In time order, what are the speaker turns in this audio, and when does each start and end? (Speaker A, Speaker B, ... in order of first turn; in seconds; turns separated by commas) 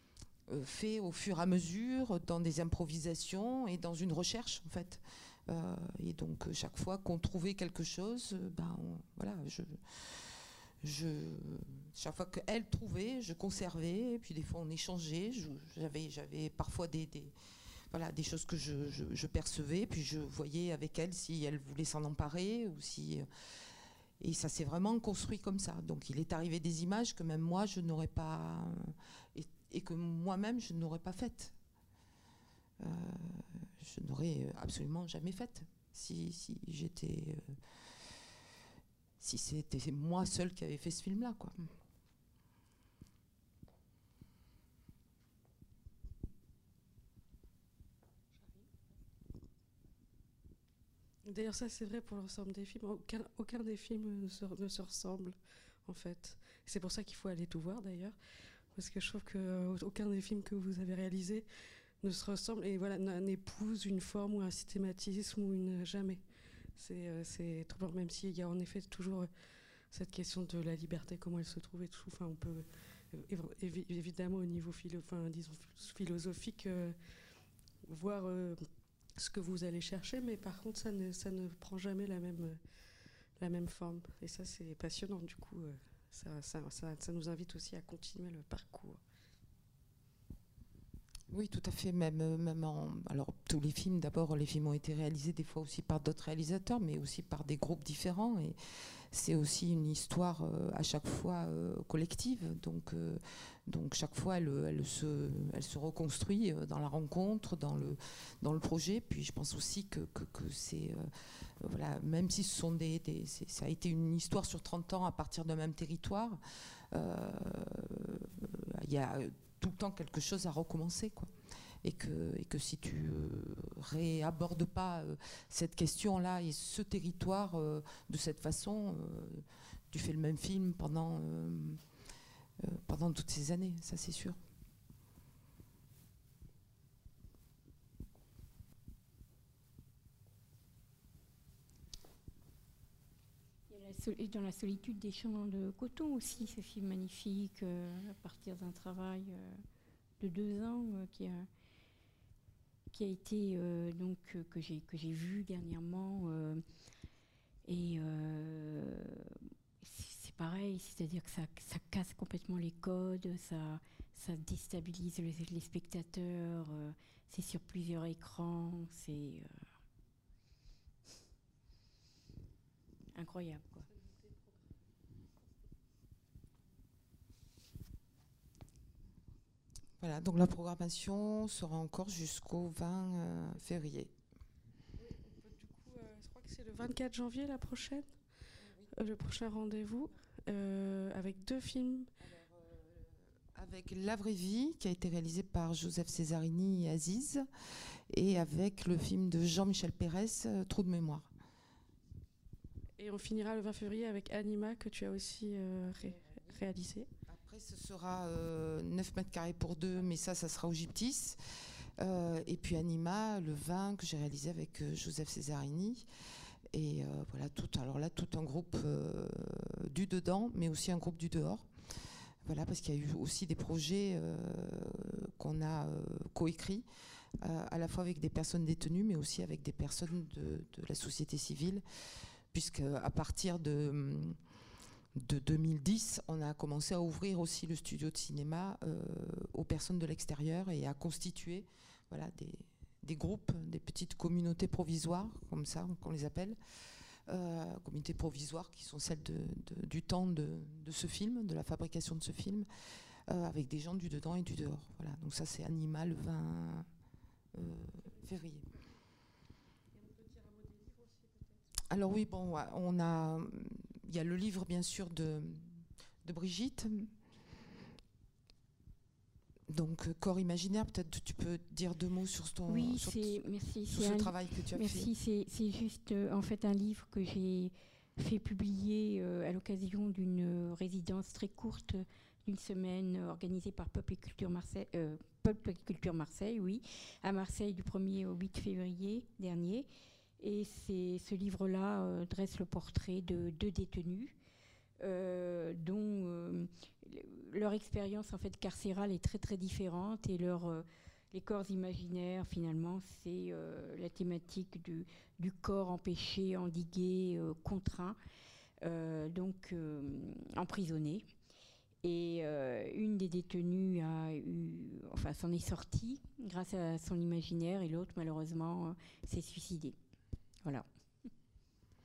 Speaker A: 0.5-17.3, Speaker A: 17.9-23.3, Speaker A: 24.2-31.6, Speaker A: 32.8-38.1, Speaker A: 39.2-41.8, Speaker B: 51.2-58.1, Speaker B: 58.7-61.5, Speaker B: 62.0-66.2, Speaker B: 66.8-69.3, Speaker B: 69.9-77.0, Speaker B: 77.8-78.7, Speaker B: 79.2-82.6, Speaker B: 83.4-89.0, Speaker A: 91.3-116.4, Speaker A: 116.9-121.3, Speaker A: 121.8-131.8, Speaker A: 132.6-134.4, Speaker C: 143.7-149.6, Speaker C: 150.2-151.5, Speaker C: 152.9-156.6, Speaker C: 157.7-169.5, Speaker C: 173.1-173.9, Speaker A: 180.0-184.1, Speaker B: 185.0-188.2, Speaker B: 188.9-192.1, Speaker A: 192.4-197.5, Speaker A: 198.1-201.3, Speaker B: 203.0-207.1, Speaker A: 207.3-211.4, Speaker A: 212.0-216.1, Speaker A: 216.7-221.7, Speaker A: 222.4-226.8, Speaker A: 227.4-231.8, Speaker A: 232.5-234.4, Speaker A: 235.1-246.6, Speaker A: 247.3-252.7, Speaker A: 253.3-256.9, Speaker A: 257.5-258.7, Speaker B: 260.1-261.3, Speaker A: 261.9-267.1, Speaker A: 269.7-273.4, Speaker C: 272.7-289.9, Speaker A: 273.9-275.1, Speaker C: 290.4-294.4, Speaker C: 295.0-308.2, Speaker C: 308.8-311.3, Speaker C: 312.0-320.0